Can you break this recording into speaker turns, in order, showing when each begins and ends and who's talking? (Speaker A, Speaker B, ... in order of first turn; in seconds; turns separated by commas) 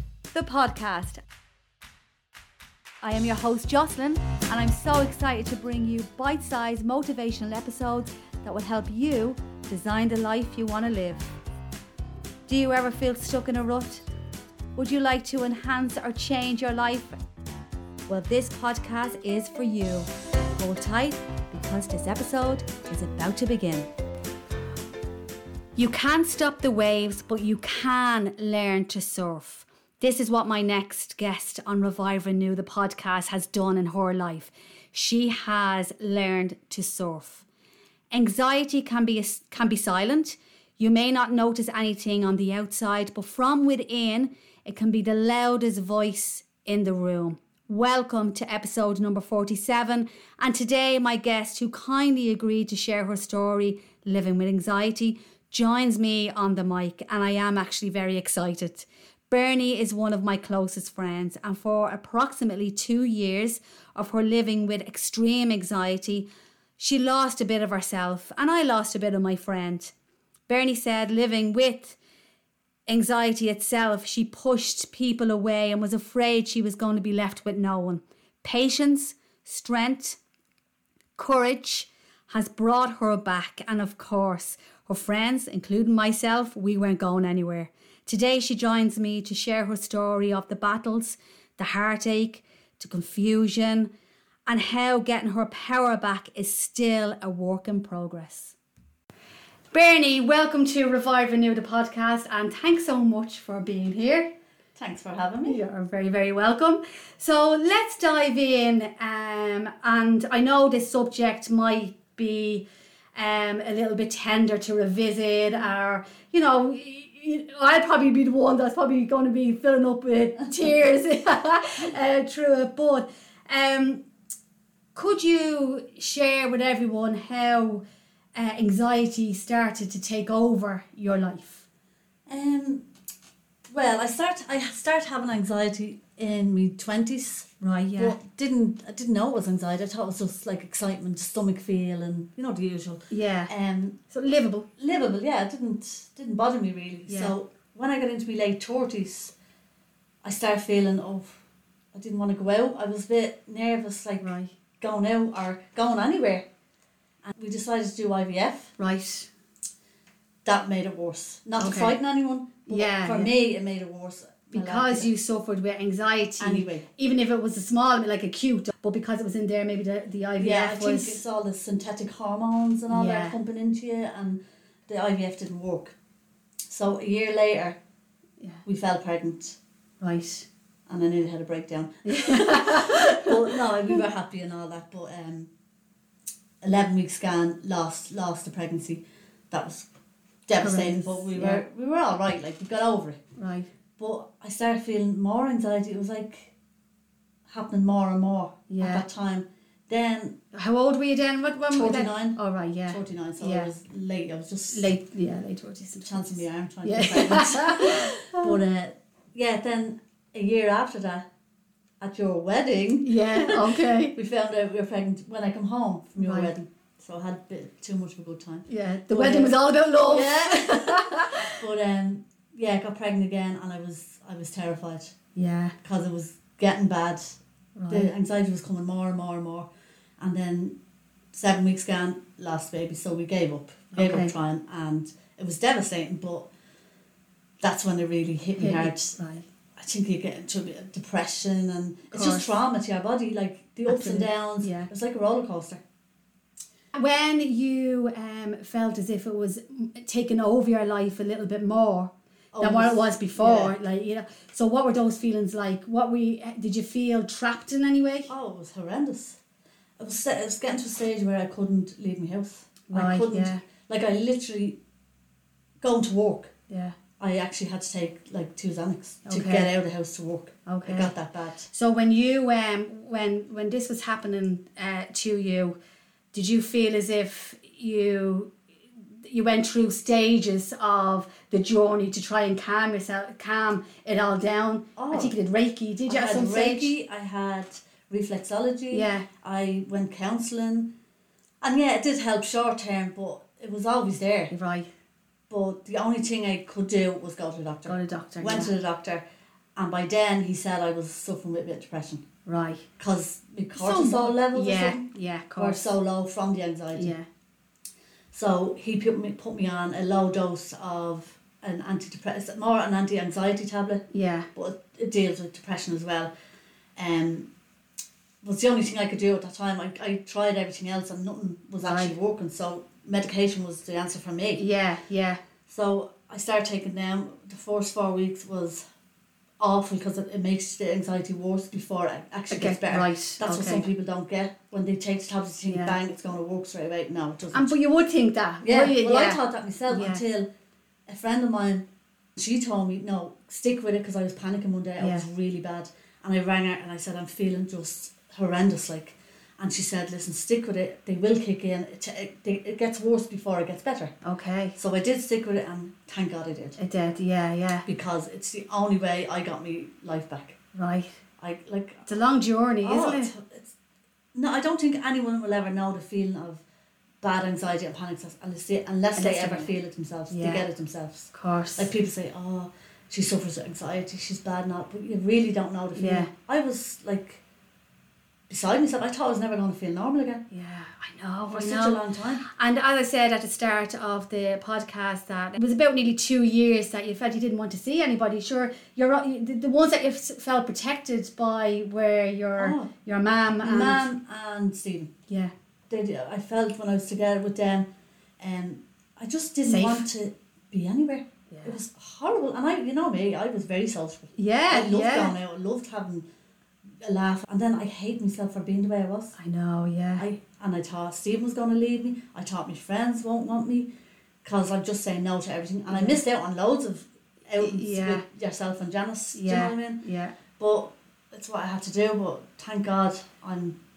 Speaker A: 0.3-1.2, Speaker B: 3.0-9.7, Speaker A: 3.8-4.0, Speaker A: 5.2-6.5, Speaker A: 7.0-8.5, Speaker A: 9.6-11.2, Speaker A: 12.5-14.0, Speaker B: 12.9-13.8, Speaker A: 14.8-17.1, Speaker B: 18.1-19.4, Speaker A: 19.2-20.0, Speaker B: 20.6-23.8, Speaker A: 21.5-23.8, Speaker A: 25.8-37.4, Speaker A: 38.1-66.2, Speaker A: 66.8-69.9, Speaker A: 70.5-72.0, Speaker A: 72.9-80.2, Speaker A: 81.2-93.9, Speaker A: 94.5-98.5, Speaker A: 99.7-104.3, Speaker B: 104.8-105.6, Speaker A: 105.4-124.0, Speaker A: 124.9-131.7, Speaker B: 132.3-132.8, Speaker B: 133.7-144.0, Speaker A: 137.6-138.2, Speaker A: 143.1-143.5, Speaker A: 144.1-144.7, Speaker B: 144.8-149.3, Speaker A: 147.1-147.3, Speaker B: 150.2-151.4, Speaker B: 151.9-156.4, Speaker A: 154.2-154.5, Speaker B: 157.2-158.7, Speaker A: 158.8-159.3, Speaker B: 160.4-165.1, Speaker A: 161.6-161.9, Speaker A: 162.7-163.3, Speaker A: 164.5-171.2, Speaker B: 166.4-166.9, Speaker B: 170.4-175.9, Speaker A: 172.9-173.4, Speaker B: 176.7-177.8, Speaker B: 178.6-179.6, Speaker A: 180.0-180.4, Speaker B: 180.9-185.5, Speaker A: 182.0-184.0, Speaker B: 186.6-189.8, Speaker B: 190.5-193.2, Speaker A: 190.6-191.6, Speaker A: 193.3-193.7, Speaker B: 194.0-196.5, Speaker B: 197.5-200.4, Speaker A: 198.7-199.0, Speaker A: 200.5-203.7, Speaker B: 201.7-204.9, Speaker A: 204.7-208.6, Speaker B: 206.0-211.3, Speaker B: 212.0-225.2, Speaker A: 213.0-214.1, Speaker A: 216.2-216.5, Speaker A: 218.7-221.6, Speaker A: 225.3-225.7, Speaker B: 225.8-227.4, Speaker A: 227.8-228.1, Speaker B: 227.9-230.8, Speaker B: 231.3-236.5, Speaker A: 233.9-234.3, Speaker B: 237.6-239.2, Speaker A: 238.6-239.4, Speaker B: 239.8-245.8, Speaker A: 242.1-242.6, Speaker A: 243.9-244.9, Speaker A: 246.9-258.3, Speaker B: 252.5-253.7, Speaker B: 258.3-259.4, Speaker B: 260.0-264.8, Speaker A: 262.9-263.6, Speaker B: 265.8-266.5, Speaker A: 266.7-266.9, Speaker B: 267.2-271.7, Speaker A: 269.2-269.7, Speaker A: 270.6-271.1, Speaker A: 271.7-275.7, Speaker A: 276.3-278.5, Speaker A: 279.2-286.9, Speaker B: 284.9-285.3, Speaker B: 286.1-290.9, Speaker A: 288.9-289.3, Speaker B: 291.6-294.5, Speaker A: 294.5-294.9, Speaker B: 295.5-299.2, Speaker A: 297.9-298.7, Speaker B: 299.8-302.2, Speaker A: 302.4-302.8, Speaker B: 303.0-307.1, Speaker A: 303.8-305.9, Speaker A: 306.9-307.2, Speaker B: 308.3-316.3, Speaker A: 314.1-314.5, Speaker B: 317.0-317.5, Speaker B: 318.4-324.6, Speaker A: 321.8-322.1, Speaker A: 324.6-325.4, Speaker B: 325.7-328.8, Speaker B: 329.6-337.8, Speaker A: 332.5-333.9, Speaker A: 335.6-335.9, Speaker A: 337.5-340.2, Speaker B: 338.6-340.5, Speaker B: 341.1-341.8, Speaker B: 342.4-354.1, Speaker A: 345.0-345.3, Speaker A: 354.2-354.8, Speaker B: 354.8-356.8, Speaker A: 356.8-357.8, Speaker B: 357.8-360.6, Speaker A: 360.7-361.1, Speaker B: 361.4-362.1, Speaker A: 362.1-363.3, Speaker B: 362.8-363.7, Speaker B: 364.3-366.6, Speaker B: 367.2-377.4, Speaker A: 369.1-369.7, Speaker A: 370.3-370.6, Speaker A: 371.3-371.9, Speaker A: 375.9-376.3, Speaker B: 378.5-380.4, Speaker A: 380.5-394.1, Speaker B: 381.4-382.4, Speaker B: 392.6-392.9, Speaker B: 393.6-395.1, Speaker A: 395.3-395.5, Speaker B: 395.9-397.9, Speaker B: 398.4-406.2, Speaker A: 399.6-400.1, Speaker A: 401.5-401.8, Speaker A: 404.3-405.3, Speaker B: 407.0-409.4, Speaker A: 409.4-410.2, Speaker B: 410.2-413.9, Speaker B: 414.4-420.0, Speaker A: 415.9-416.2, Speaker A: 417.6-418.2, Speaker A: 419.3-420.4, Speaker B: 420.6-423.8